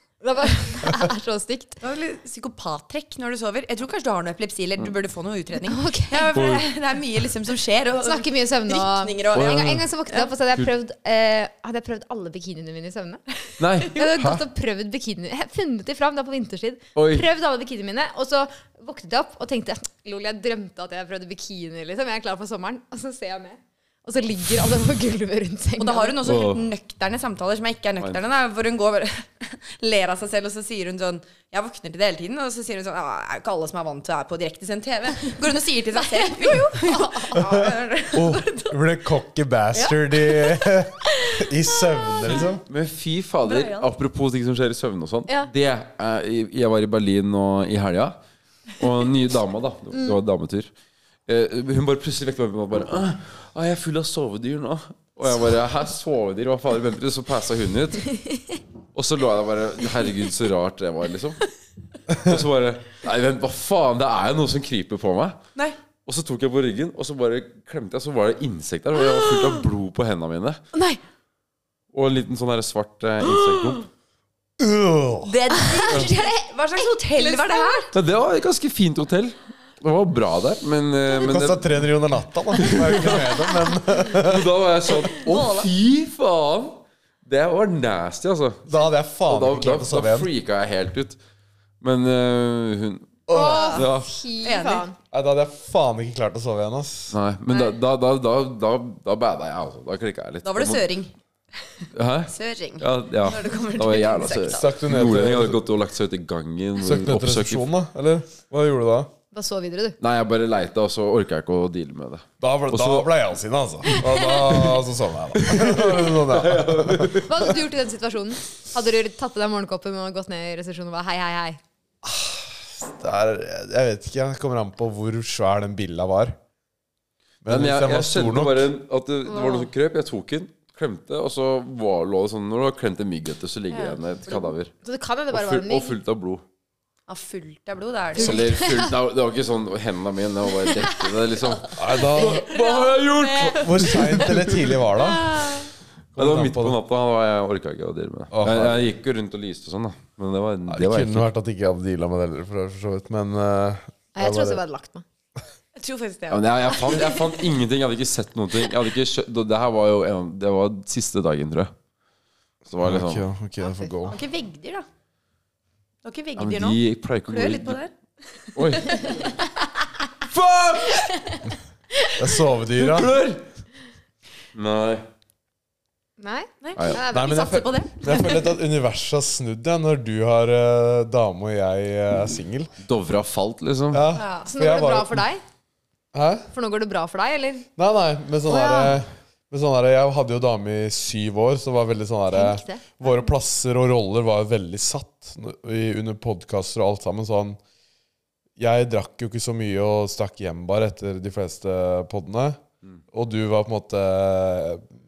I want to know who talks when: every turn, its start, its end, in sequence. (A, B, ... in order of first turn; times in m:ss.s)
0:00.2-0:01.8 A
0:01.8-0:10.3 B
0:05.6-0:06.4 A
0:06.3-0:06.7 C
0:08.0-0:26.2 A
0:09.3-0:09.8 C
0:13.6-0:14.0 C
0:14.0-0:14.3 B
0:17.0-0:17.3 C
0:25.8-0:38.8 B
0:26.2-0:26.7 C
0:36.0-0:37.6 A
0:37.5-0:42.6 D
0:39.7-0:40.6 B
0:42.6-0:48.2 C
0:43.4-0:43.9 B
0:48.7-0:50.7 C
0:51.3-0:58.1 C
0:58.9-1:01.4 C
1:02.2-1:05.4 C
1:06.1-1:10.6 C
1:09.0-1:09.6 A
1:10.7-1:11.0 A
1:11.9-1:13.9 C
1:13.4-1:13.7 A
1:14.6-1:15.3 D
1:15.2-1:17.9 B
1:15.5-1:17.9 A
1:17.9-1:21.7 C
1:21.2-1:24.5 D
1:22.6-1:31.2 C
1:25.2-1:25.7 B
1:28.7-1:30.3 D
1:31.8-1:33.2 C
1:33.3-1:33.8 D
1:33.3-1:35.0 A
1:33.3-1:33.9 B
1:33.7-1:34.1 C
1:34.4-1:34.9 B
1:35.1-1:37.2 D
1:37.1-1:40.9 C
1:37.5-1:37.8 B
1:40.4-1:41.1 B
1:41.7-1:44.7 B
1:41.9-1:47.7 C
1:44.5-1:45.6 D
1:46.8-1:49.1 D
1:49.3-1:50.0 A
1:50.0-1:53.1 C
1:52.4-1:57.2 D
1:53.8-1:54.8 A
1:55.5-1:57.5 C
1:57.2-2:01.6 A
2:02.0-2:06.4 D
2:07.4-2:08.7 D
2:07.4-2:14.7 C
2:09.3-2:09.7 A
2:13.7-2:14.5 B
2:14.8-2:16.0 A
2:15.3-2:16.4 C
2:17.1-2:18.6 B
2:18.2-2:24.5 C
2:18.2-2:18.9 A
2:21.7-2:22.5 D
2:22.1-2:23.7 B
2:23.5-2:25.5 D
2:23.9-2:25.7 A
2:26.2-2:26.8 D
2:26.2-2:31.3 C
2:28.3-2:28.9 D
2:30.7-2:34.6 D
2:34.2-2:35.0 A
2:35.8-2:37.1 B
2:36.3-2:41.7 C
2:42.7-2:43.2 C
2:42.8-2:44.2 D
2:44.1-2:44.9 B
2:46.0-2:47.9 B
2:46.4-2:47.8 C
2:48.6-2:49.3 C
2:50.3-2:51.1 C
2:52.1-2:53.2 D
2:52.8-2:53.4 C
2:54.5-2:55.0 C
2:56.2-2:56.5 A
2:56.6-2:58.4 B
2:56.8-2:57.0 C
2:56.9-3:02.7 D
3:02.8-3:04.1 C
3:03.9-3:05.3 D
3:04.1-3:04.5 B
3:04.5-3:05.4 A
3:06.1-3:06.5 D
3:06.5-3:07.7 A
3:07.8-3:17.6 D
3:08.5-3:09.0 A
3:12.3-3:13.0 A
3:18.6-3:22.6 D
3:23.1-3:24.9 D